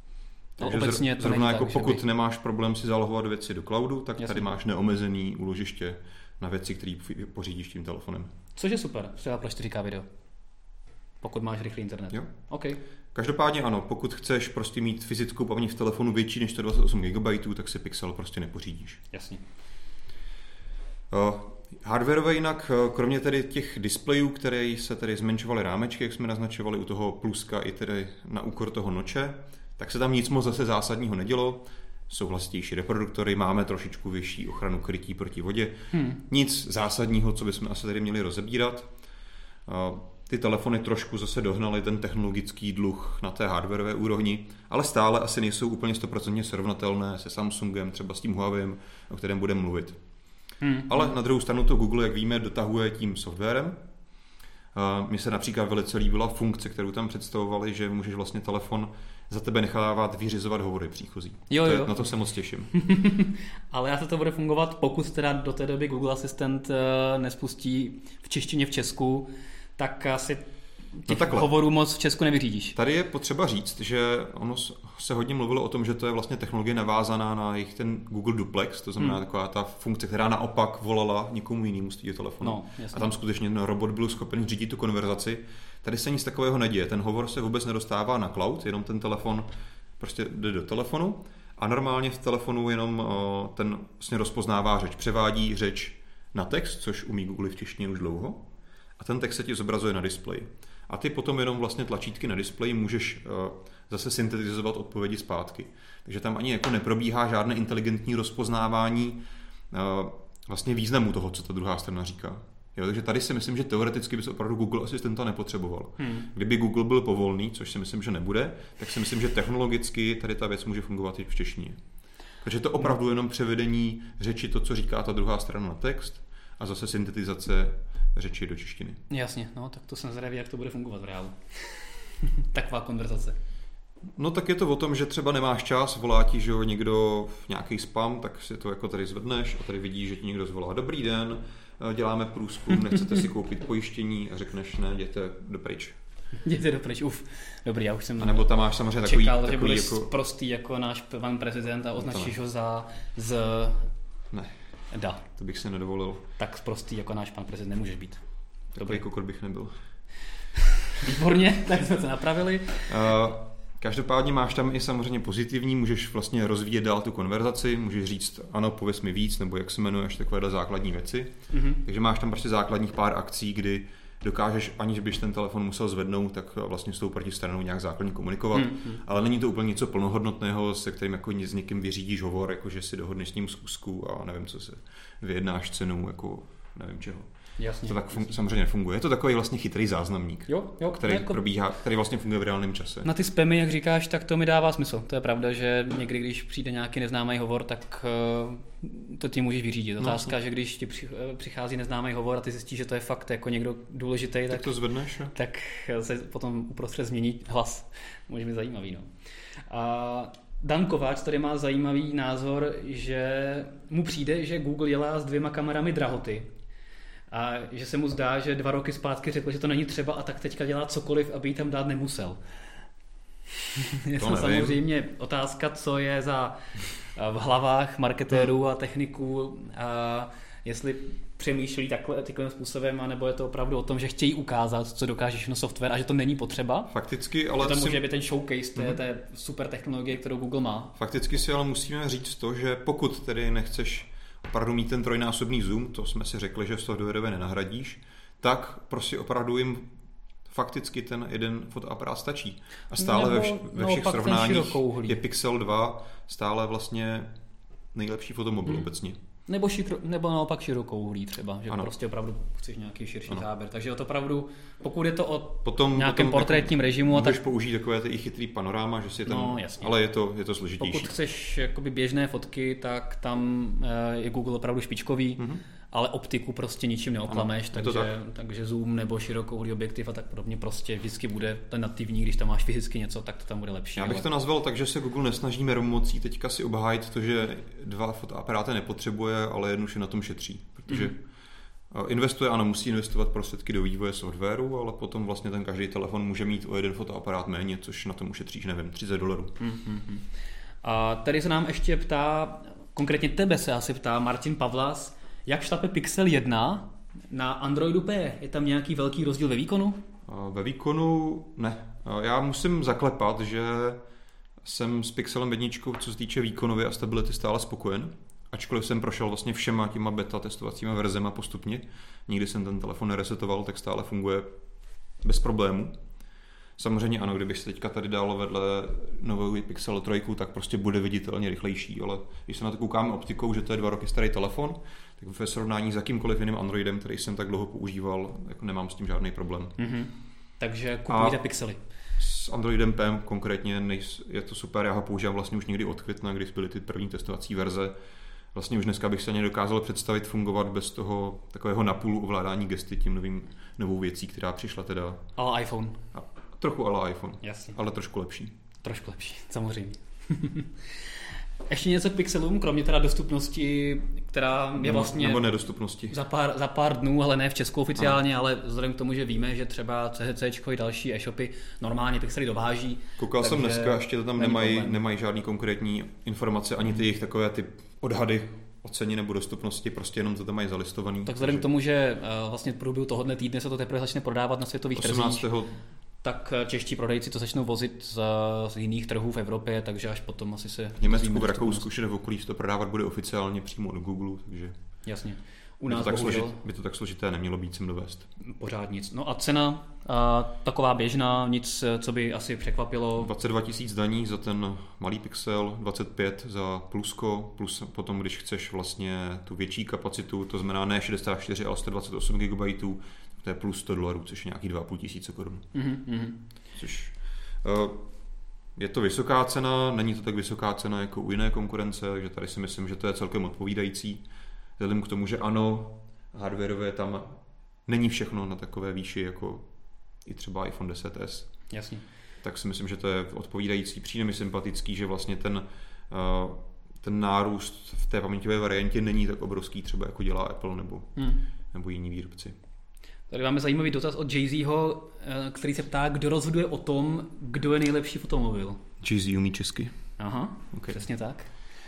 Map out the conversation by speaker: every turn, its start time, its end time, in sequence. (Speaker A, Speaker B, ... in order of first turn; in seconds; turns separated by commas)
Speaker A: 0.6-8.3, Speaker B: 0.6-2.0, Speaker B: 4.2-4.5, Speaker B: 8.6-10.1, Speaker B: 11.2-12.8, Speaker A: 13.1-19.0, Speaker B: 19.1-19.4, Speaker A: 21.1-38.9, Speaker B: 35.9-36.2, Speaker A: 39.6-50.0, Speaker B: 50.6-51.1, Speaker A: 50.9-53.8, Speaker A: 54.7-62.7, Speaker B: 61.5-62.0, Speaker B: 62.7-70.4, Speaker B: 71.0-72.7, Speaker A: 71.1-71.5, Speaker A: 72.7-89.5, Speaker B: 82.4-83.1, Speaker A: 90.0-98.4, Speaker A: 99.0-109.2, Speaker A: 109.7-121.8, Speaker B: 116.0-116.3, Speaker A: 122.4-129.0, Speaker B: 129.1-133.4, Speaker A: 134.2-145.9, Speaker B: 146.4-153.9, Speaker A: 148.2-150.1, Speaker A: 152.0-152.3, Speaker B: 154.9-155.2, Speaker A: 155.3-156.2, Speaker B: 156.4-158.2, Speaker A: 158.7-159.7, Speaker B: 160.5-163.1, Speaker A: 162.9-187.3, Speaker B: 171.5-171.8, Speaker B: 178.5-179.0, Speaker B: 187.6-188.1, Speaker A: 187.8-193.1, Speaker B: 190.5-191.4, Speaker B: 193.0-204.7, Speaker A: 200.0-200.3, Speaker A: 204.5-205.3, Speaker B: 205.3-209.1, Speaker B: 209.7-216.5, Speaker B: 217.3-222.4, Speaker B: 223.8-236.9, Speaker A: 224.2-224.8, Speaker A: 236.9-238.0, Speaker B: 237.6-240.9, Speaker A: 240.9-249.9, Speaker A: 250.5-257.3, Speaker B: 253.0-255.2, Speaker A: 257.9-259.2, Speaker B: 259.4-267.4, Speaker A: 265.6-271.1, Speaker B: 269.2-269.9, Speaker B: 270.8-284.3, Speaker A: 275.4-275.6, Speaker A: 277.3-278.1, Speaker A: 283.9-291.2, Speaker A: 291.9-299.5, Speaker B: 299.6-300.2, Speaker B: 300.8-310.0, Speaker A: 310.2-314.0, Speaker A: 314.6-324.5, Speaker A: 325.2-325.9, Speaker A: 326.8-339.7, Speaker B: 339.8-341.8, Speaker A: 341.1-341.4, Speaker A: 342.2-347.9, Speaker A: 348.5-355.2, Speaker B: 355.4-356.0, Speaker A: 356.1-358.6, Speaker B: 357.4-357.8, Speaker B: 358.8-365.5, Speaker A: 364.8-366.2, Speaker B: 366.1-375.0, Speaker A: 373.2-381.6, Speaker B: 381.2-385.5, Speaker A: 384.9-385.8, Speaker B: 386.2-391.9, Speaker A: 391.0-394.7, Speaker B: 395.0-396.6, Speaker A: 395.9-398.3, Speaker B: 398.4-403.3, Speaker A: 403.2-415.7, Speaker B: 415.7-416.4, Speaker A: 416.7-418.0, Speaker A: 418.8-424.2, Speaker A: 424.8-429.6, Speaker A: 430.2-431.7, Speaker B: 431.7-432.0, Speaker A: 432.4-441.2, Speaker B: 441.1-441.4, Speaker A: 441.7-442.5, Speaker B: 443.3-448.8, Speaker A: 449.0-449.9, Speaker B: 450.2-451.5, Speaker A: 450.7-451.0